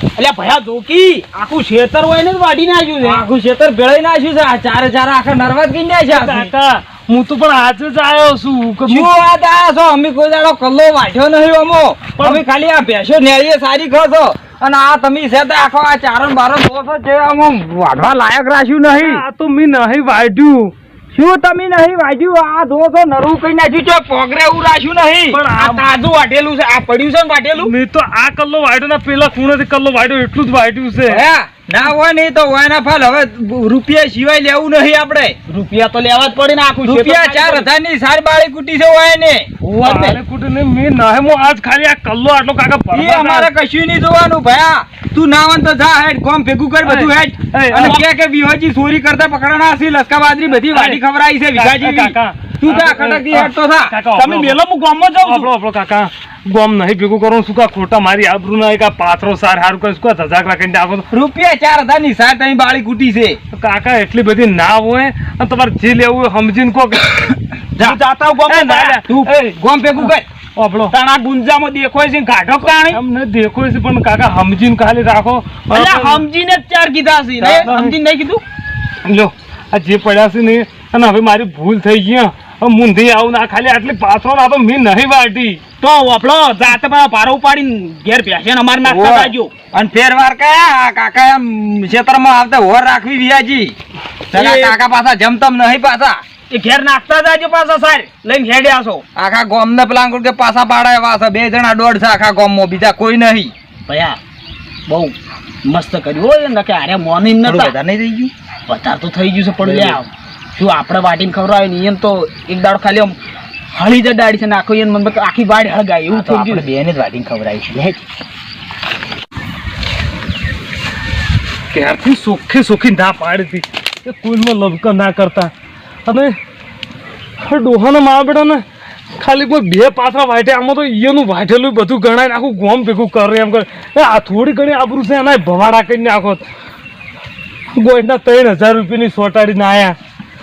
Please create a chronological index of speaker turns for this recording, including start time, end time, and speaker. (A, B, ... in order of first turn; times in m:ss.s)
0:00.2-0:03.2 A
0:03.0-0:06.5 B
0:06.1-0:09.1 C
0:08.9-0:19.2 B
0:19.0-0:20.7 C
0:21.2-0:25.4 B
0:25.3-0:25.9 C
0:25.4-0:27.7 A
0:27.6-0:31.2 C
0:31.1-0:35.4 B
0:35.5-0:37.7 A
0:36.8-0:39.5 B
0:39.6-0:40.2 A
0:39.8-0:43.5 C
0:42.9-0:53.9 B
0:46.8-0:48.0 C
0:47.7-0:48.0 A
0:50.7-0:51.0 C
0:51.6-0:54.6 C
0:54.1-0:55.5 A
0:55.2-1:01.1 C
1:01.1-1:03.4 B
1:03.5-1:07.4 C
1:07.8-1:09.2 A
1:08.4-1:09.1 C
1:09.0-1:10.3 B
1:10.6-1:10.9 C
1:10.9-1:13.0 A
1:12.6-1:16.2 C
1:15.7-1:18.4 A
1:17.4-1:18.0 C
1:19.0-1:25.6 C
1:25.8-1:29.5 A
1:28.8-1:33.8 B
1:34.3-1:36.2 B
1:34.3-1:34.8 A
1:36.5-1:39.0 A
1:39.2-1:43.5 B
1:43.9-1:44.2 A
1:44.9-1:47.8 A
1:47.4-1:48.3 B
1:48.7-1:53.2 A
1:49.6-1:50.0 B
1:53.7-1:56.7 A
1:56.1-1:58.0 B
2:01.7-2:05.5 C
2:06.1-2:06.4 C
2:07.4-2:08.6 C
2:09.2-2:16.4 C
2:17.7-2:20.0 C